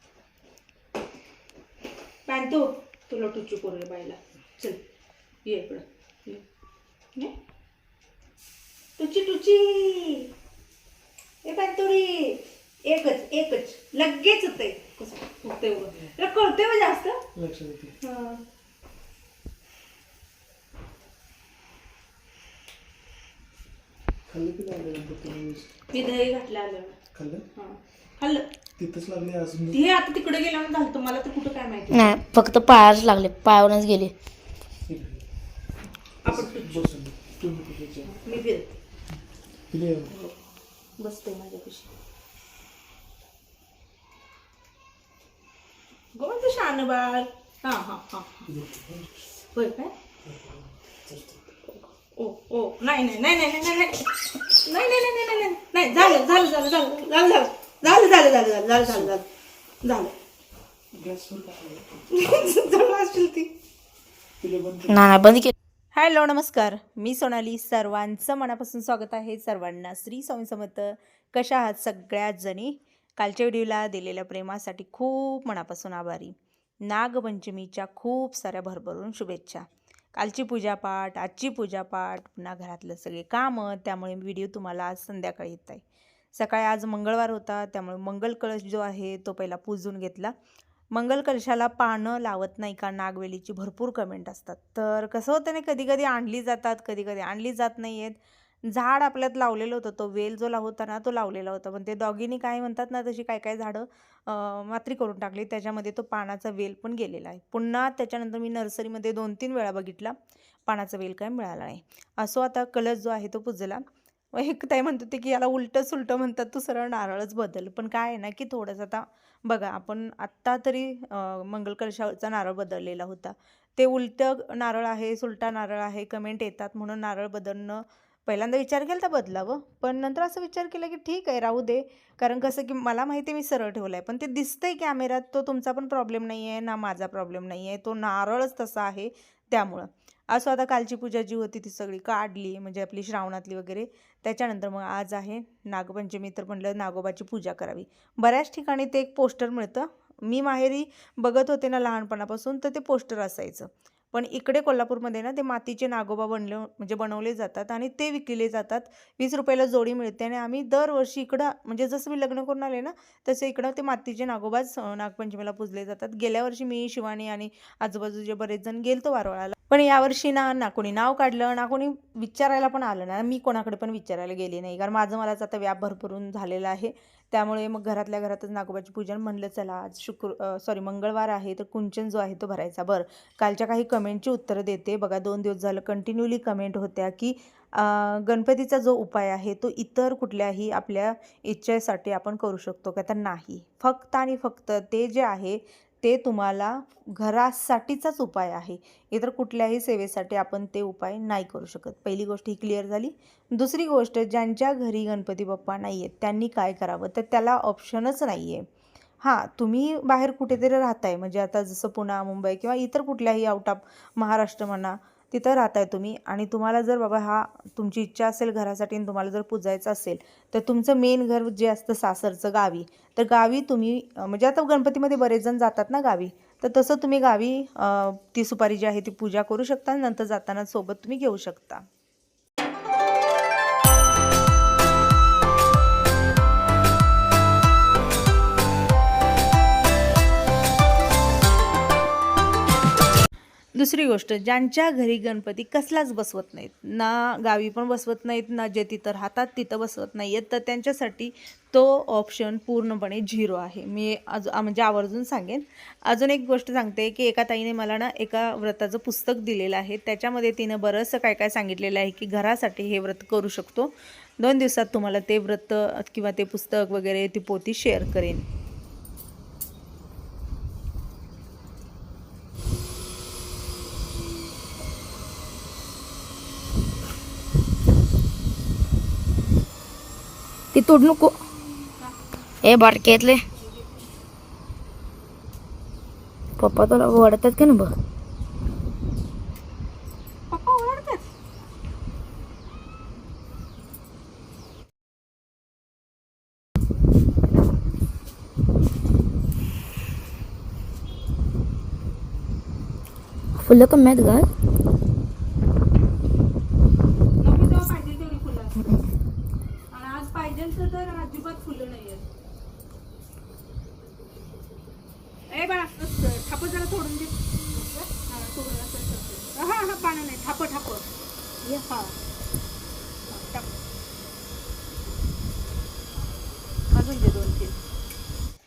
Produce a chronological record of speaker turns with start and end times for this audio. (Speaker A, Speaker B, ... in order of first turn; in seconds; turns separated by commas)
Speaker A: 2.3-4.8, Speaker A: 5.5-6.4, Speaker A: 9.0-10.3, Speaker A: 11.4-17.2, Speaker B: 17.4-18.0, Speaker A: 18.0-18.4, Speaker B: 24.3-25.7, Speaker A: 25.9-27.0, Speaker B: 27.1-27.5, Speaker A: 27.6-28.5, Speaker B: 28.8-29.8, Speaker A: 29.7-32.2, Speaker C: 31.9-34.1, Speaker B: 34.9-35.2, Speaker A: 36.2-36.9, Speaker B: 36.3-38.1, Speaker A: 38.0-38.7, Speaker B: 39.7-40.1, Speaker A: 40.1-40.4, Speaker A: 41.0-41.9, Speaker A: 46.1-48.5, Speaker B: 48.5-49.2, Speaker A: 49.5-49.9, Speaker B: 50.2-51.5, Speaker A: 52.1-59.2, Speaker B: 58.9-59.1, Speaker A: 59.8-60.1, Speaker B: 60.9-61.9, Speaker A: 62.1-63.5, Speaker B: 64.4-65.3, Speaker C: 64.9-65.5, Speaker A: 65.9-85.8, Speaker A: 86.3-90.3, Speaker A: 90.9-110.2, Speaker A: 110.7-113.8, Speaker A: 114.3-208.7, Speaker A: 209.2-231.9, Speaker A: 243.8-268.5, Speaker C: 280.7-281.4, Speaker C: 282.6-283.4, Speaker C: 286.6-287.9, Speaker A: 290.5-291.2, Speaker C: 303.6-304.5, Speaker A: 307.4-308.9, Speaker A: 309.9-312.2, Speaker A: 315.5-321.1, Speaker A: 321.6-322.2, Speaker A: 323.3-323.7, Speaker A: 326.9-327.8